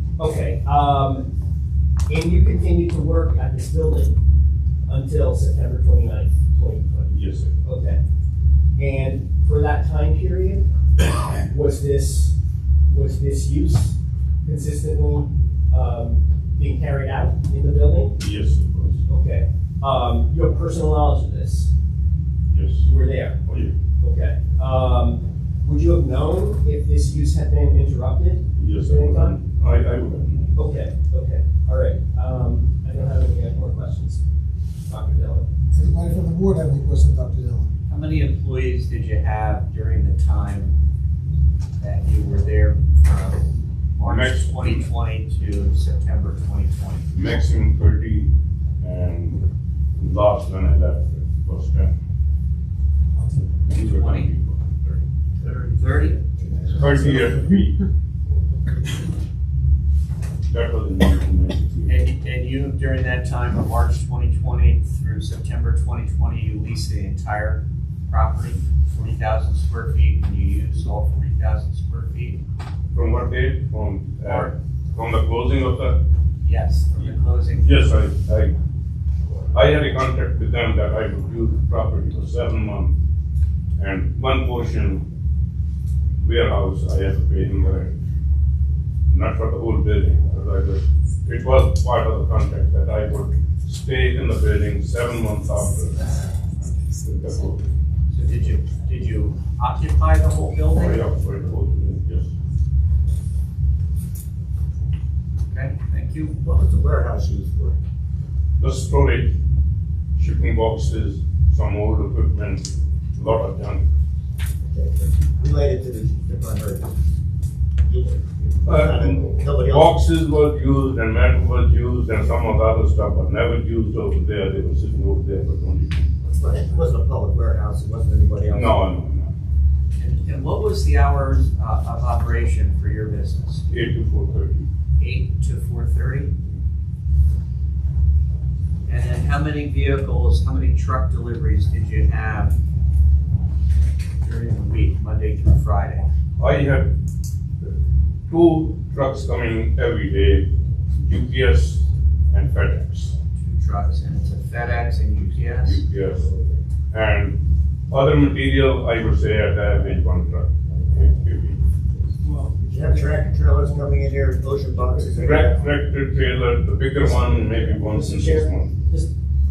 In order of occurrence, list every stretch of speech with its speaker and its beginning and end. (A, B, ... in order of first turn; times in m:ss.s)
0:00.2-0:01.3 A
0:02.1-0:04.2 A
0:04.9-0:08.0 A
0:07.1-0:07.6 B
0:08.8-0:10.7 A
0:11.4-0:12.3 A
0:12.9-0:18.2 A
0:18.2-0:19.0 B
0:19.1-0:21.7 A
0:22.5-0:22.9 B
0:22.8-0:23.4 A
0:23.5-0:23.8 B
0:24.0-0:29.4 A
0:28.6-0:30.6 B
0:30.6-0:34.2 A
0:34.9-0:35.5 A
0:35.7-0:37.7 C
0:37.9-0:40.7 D
0:41.8-0:47.0 D
0:44.0-0:44.9 B
0:47.1-0:49.5 B
0:50.0-0:51.9 B
0:53.7-0:55.0 B
0:53.8-0:54.3 D
0:55.6-0:56.2 D
0:56.4-0:57.4 C
0:56.8-0:57.8 B
1:00.5-1:01.9 B
1:01.9-1:12.4 D
1:12.9-1:16.0 B
1:14.2-1:14.5 D
1:16.4-1:18.0 D
1:17.0-1:18.6 B
1:19.5-1:23.0 B
1:23.8-1:25.1 B
1:26.2-1:28.0 B
1:29.1-1:37.7 B
1:38.1-1:41.0 D
1:40.7-1:42.4 B
1:45.5-1:46.4 D
1:46.4-1:47.8 E
1:48.6-1:49.4 B
1:50.2-1:53.9 B
1:54.6-1:57.0 E
1:57.9-2:00.0 E
1:58.6-2:06.3 B
2:06.3-2:08.8 E
2:08.5-2:09.3 B
2:10.0-2:13.6 D
2:13.7-2:14.7 B
2:15.0-2:16.3 D
2:18.9-2:22.6 D
2:24.2-2:26.1 D
2:26.4-2:26.9 B
2:28.3-2:33.2 B
2:33.4-2:35.8 D
2:35.6-2:36.3 B
2:36.9-2:41.6 B
2:42.6-2:45.8 E
2:45.1-2:48.8 B
2:47.1-2:49.1 A